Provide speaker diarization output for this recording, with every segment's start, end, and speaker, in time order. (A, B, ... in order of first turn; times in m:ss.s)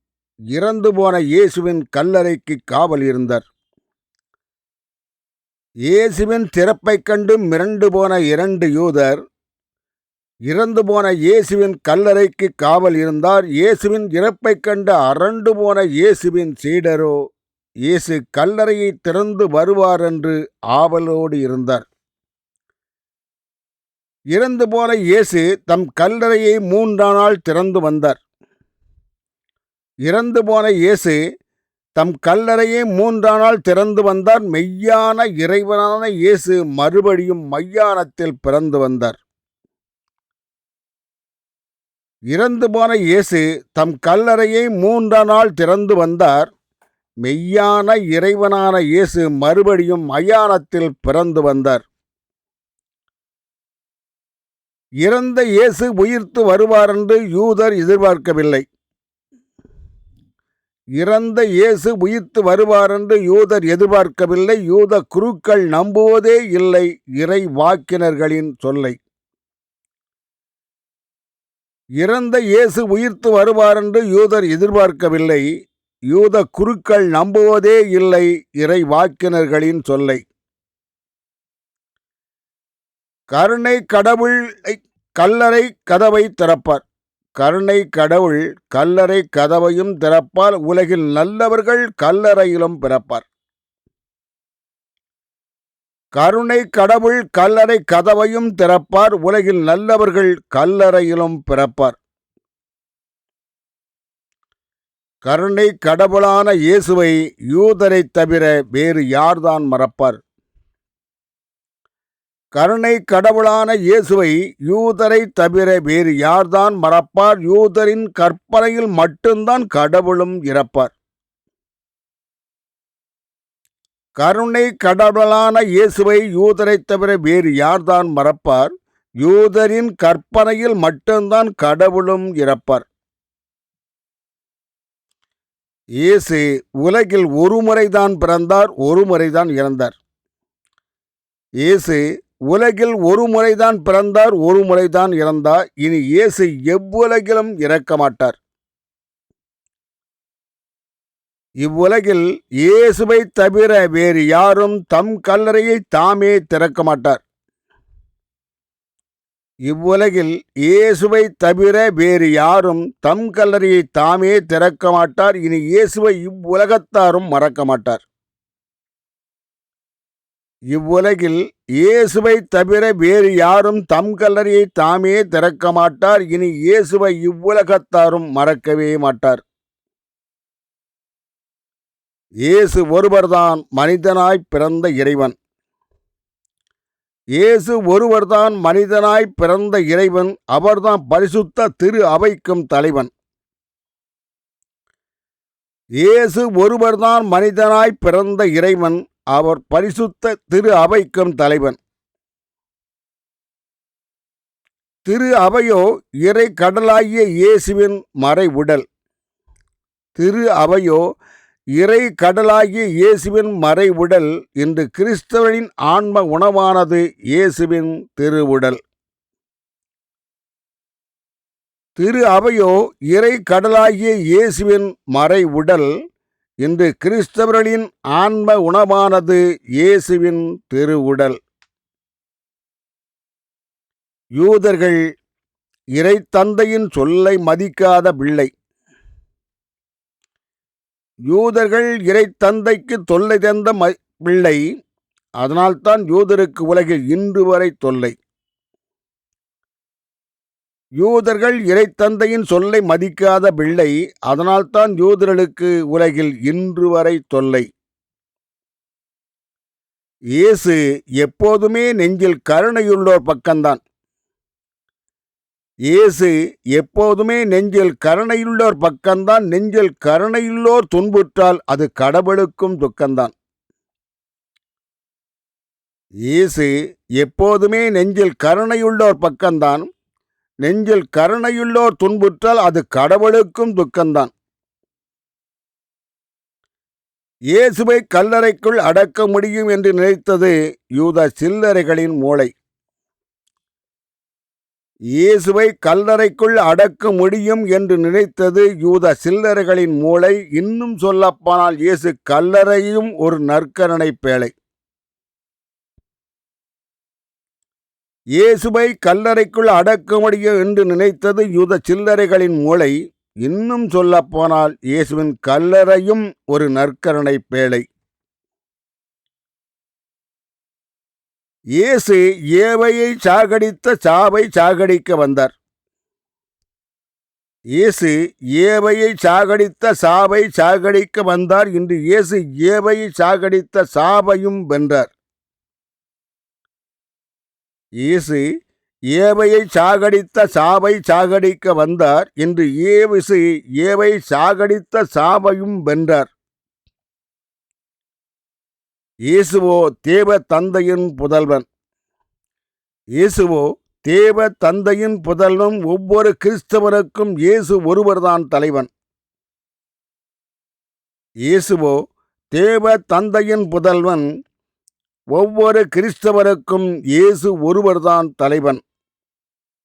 0:00.5-0:03.4 A
0:05.9-0:09.2 A
0:10.5-0:17.2 A
0:17.8-0:21.8 A
0:24.3-0:28.2 A
0:30.1-0:31.2 A
0:32.0-0:39.2 A
0:42.3-0:46.5 A
0:47.2-0:51.8 A
0:55.0-0:58.6 A
1:01.0-1:09.0 A
1:12.0-1:15.4 A
1:16.1-1:20.2 A
1:23.3-1:26.8 A
1:27.4-1:33.2 A
1:36.2-1:42.0 A
1:45.2-1:50.2 A
1:52.5-2:00.9 A
2:04.2-2:12.8 A
2:16.0-2:20.0 A
2:21.6-2:28.4 A
2:31.6-2:37.2 A
2:39.7-2:48.0 A
2:50.7-2:59.4 A
3:02.4-3:05.4 A
3:07.4-3:13.1 A
3:16.0-3:21.8 A
3:25.0-3:28.8 A
3:30.2-3:31.0 A
3:31.8-3:38.8 A
3:42.0-3:45.9 A
3:46.6-3:51.4 A
3:54.4-3:55.0 A
3:56.0-3:58.5 A
4:01.3-4:04.6 A
4:05.4-4:08.2 A
4:11.0-4:17.6 A
4:20.4-4:23.8 A
4:25.9-4:33.3 A
4:36.3-4:39.9 A
4:40.6-4:44.3 A
4:47.5-4:52.5 A
4:55.2-5:04.5 A
5:08.4-5:17.8 A
5:21.8-5:25.5 A
5:27.8-5:35.1 A
5:38.0-5:38.4 A
5:39.1-5:46.3 A
5:49.3-5:51.7 A
5:53.2-5:58.9 A
6:01.4-6:02.0 A
6:02.5-6:04.2 A
6:05.3-6:08.8 A